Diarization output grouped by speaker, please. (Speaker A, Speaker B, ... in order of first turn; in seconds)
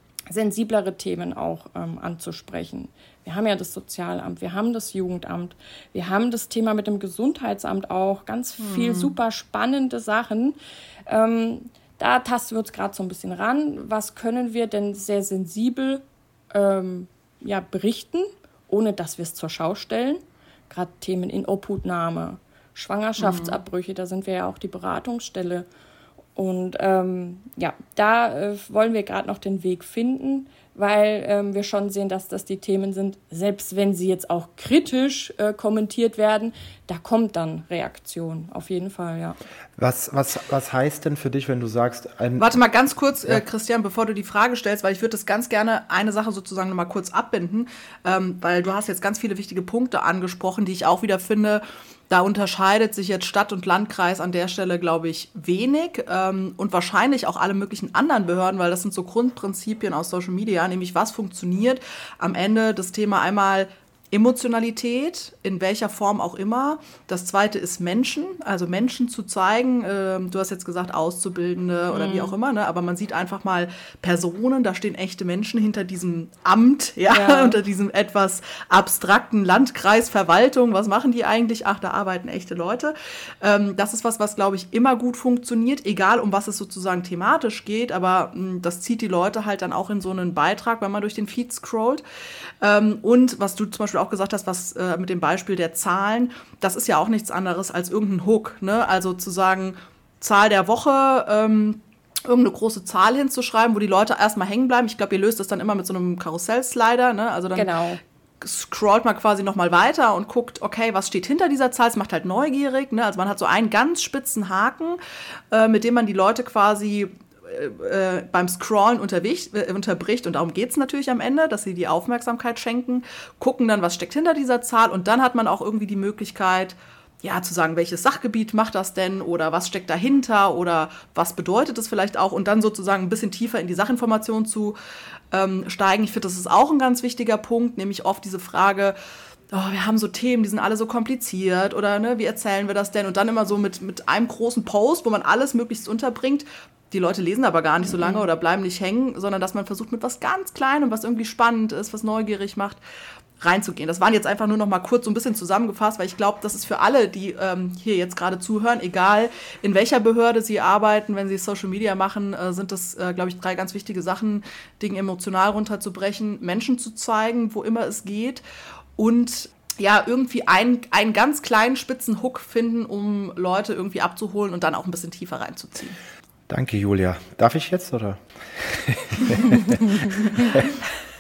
Speaker A: 0.3-25.7, 26.4-39.4, 71.9-72.3, 77.1-77.6, 107.6-108.0, 147.9-148.2
Speaker B: 8.6-9.1, 23.2-23.6, 42.4-92.0, 92.6-107.7, 108.4-115.0, 115.5-134.8, 135.3-139.0, 139.5-152.8, 153.4-168.4, 169.0-176.0
Speaker C: 39.8-42.6, 176.5-180.7